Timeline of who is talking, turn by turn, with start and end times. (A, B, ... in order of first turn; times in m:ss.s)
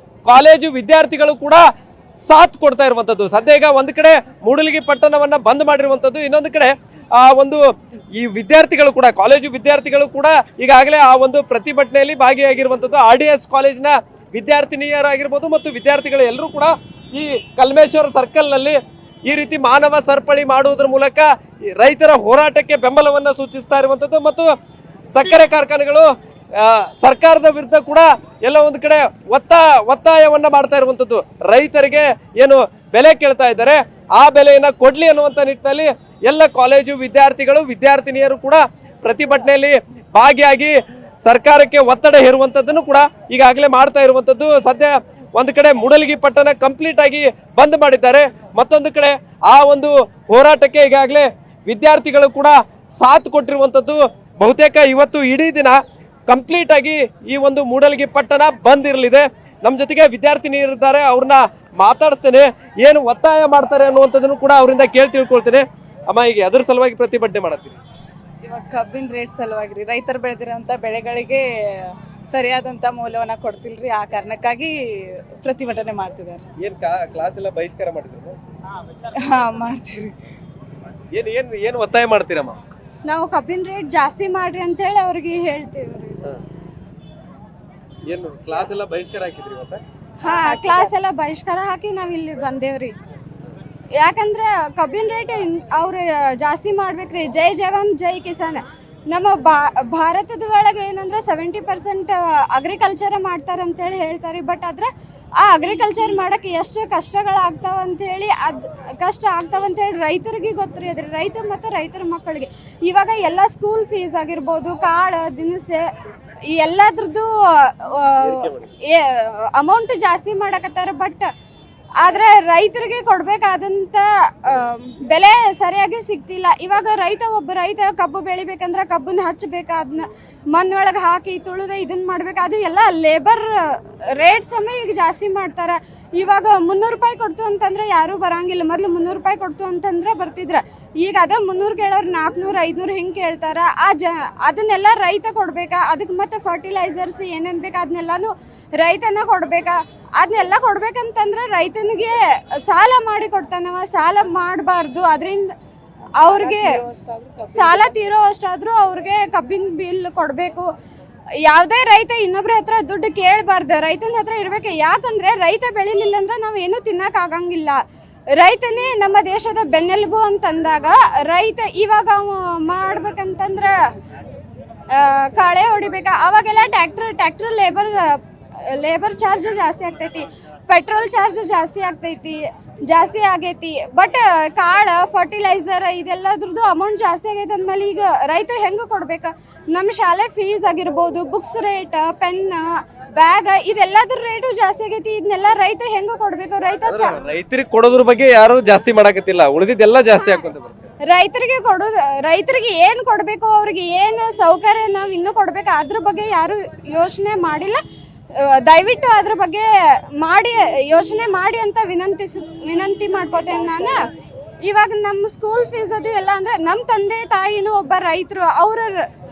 0:00.2-0:01.6 A
0:02.2-0:07.6 A
0:08.2-0:24.5 A
0:25.1-1:07.8 A
1:08.4-1:16.5 B
1:16.6-1:18.4 A
1:19.2-1:20.1 B
1:21.1-1:22.6 A
1:23.0-1:26.2 C
1:28.1-1:29.8 A
1:30.2-1:32.9 C
1:30.4-1:30.9 B
1:34.0-1:44.9 C
1:45.4-1:55.8 C
1:56.5-2:01.2 C
1:58.2-1:58.7 A
2:02.0-2:35.5 C
2:36.2-2:36.8 C
2:36.2-2:37.9 B
2:37.5-2:40.7 C
2:41.4-2:47.8 C
2:48.4-2:53.7 C
2:54.9-3:17.2 C
3:16.9-3:20.9 A
3:21.1-3:27.8 C
3:28.4-3:29.7 C
3:30.2-3:34.0 C
3:34.6-3:38.9 C